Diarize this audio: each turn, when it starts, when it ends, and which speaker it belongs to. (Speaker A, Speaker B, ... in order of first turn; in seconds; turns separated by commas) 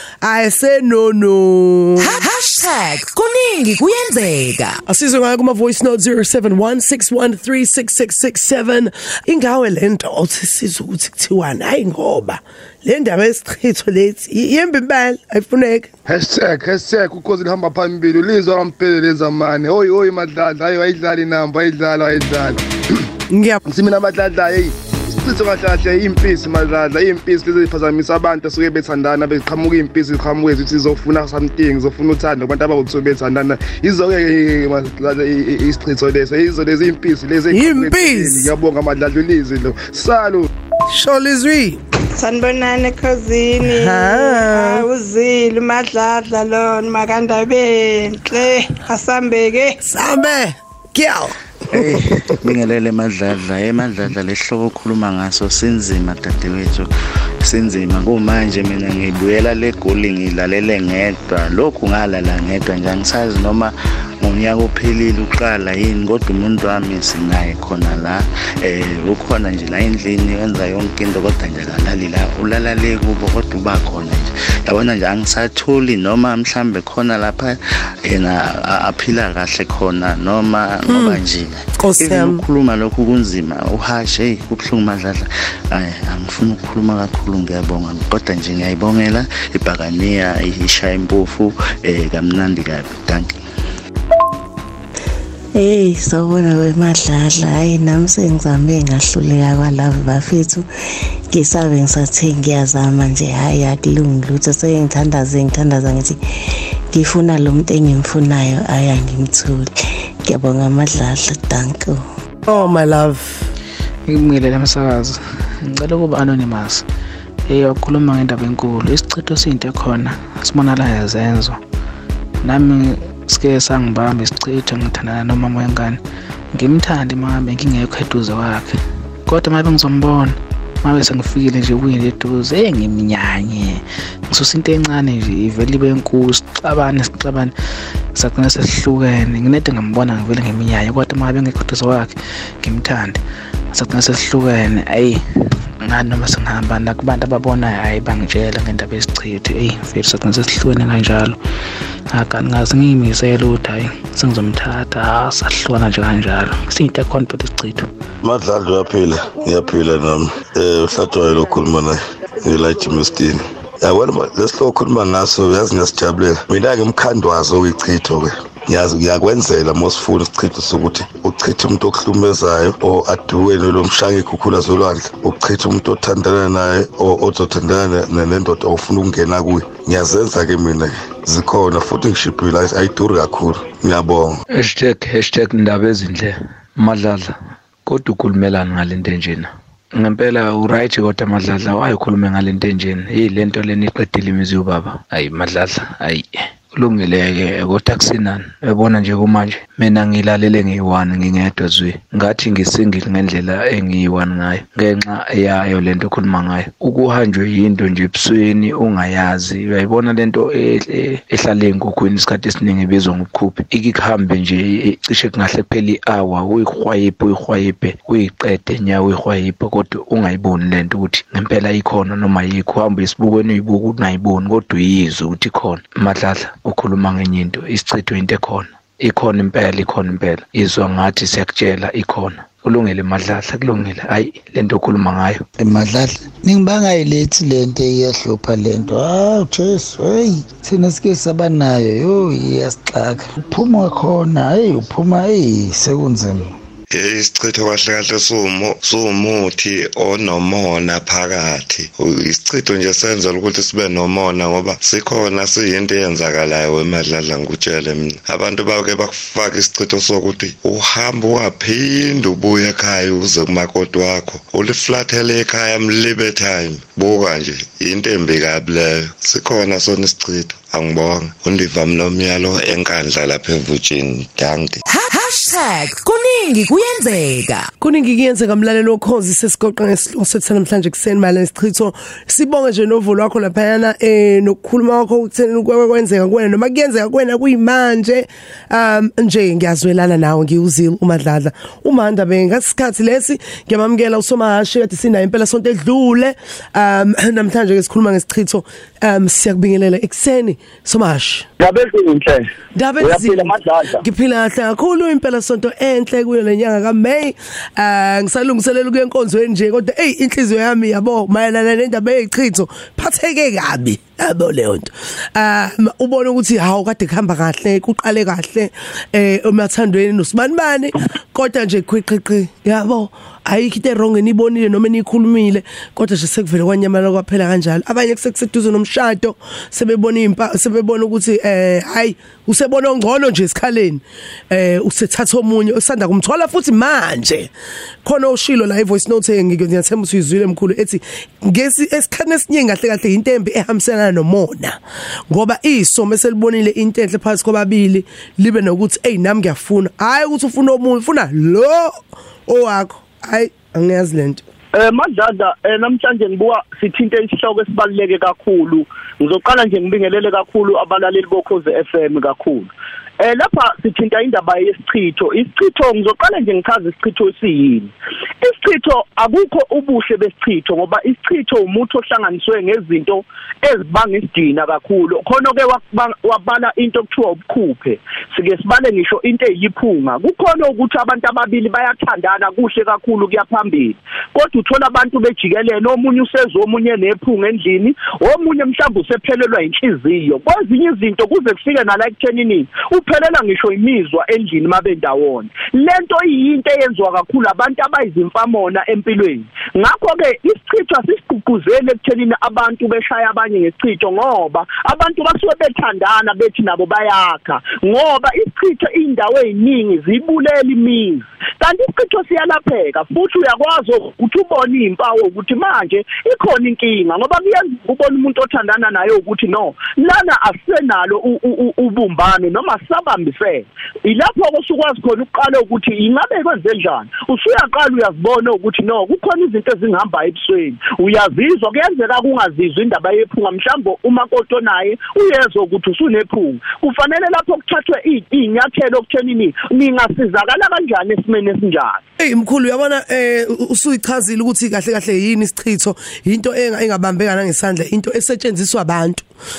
Speaker A: 0.2-2.2, Speaker B: 2.0-4.8, Speaker A: 4.8-15.9, Speaker C: 16.1-22.6, Speaker A: 23.3-23.6, Speaker C: 23.7-40.5, Speaker A: 37.5-38.5, Speaker A: 40.9-41.8, Speaker D: 42.2-49.8, Speaker A: 43.6-44.9, Speaker A: 49.8-52.4, Speaker E: 51.7-56.9, Speaker E: 57.4-93.4, Speaker A: 80.8-81.2, Speaker A: 81.8-82.4, Speaker F: 95.5-100.7, Speaker F: 101.3-106.2, Speaker F: 106.9-109.7, Speaker F: 110.2-112.0, Speaker A: 112.5-113.5, Speaker G: 114.0-116.8, Speaker G: 117.5-121.6, Speaker G: 122.4-126.0, Speaker G: 126.5-128.7, Speaker G: 129.3-133.8, Speaker G: 134.3-137.5, Speaker G: 138.1-143.2, Speaker G: 143.7-145.2, Speaker G: 145.8-151.4, Speaker G: 152.1-157.9, Speaker H: 158.2-184.4, Speaker B: 184.6-187.3, Speaker B: 187.9-235.4, Speaker I: 235.6-246.5, Speaker J: 246.9-274.8, Speaker B: 274.9-277.7, Speaker A: 277.8-301.4, Speaker K: 301.6-302.4, Speaker A: 302.7-337.5, Speaker K: 303.0-304.0, Speaker A: 338.0-354.4, Speaker K: 354.7-442.0, Speaker A: 442.2-449.3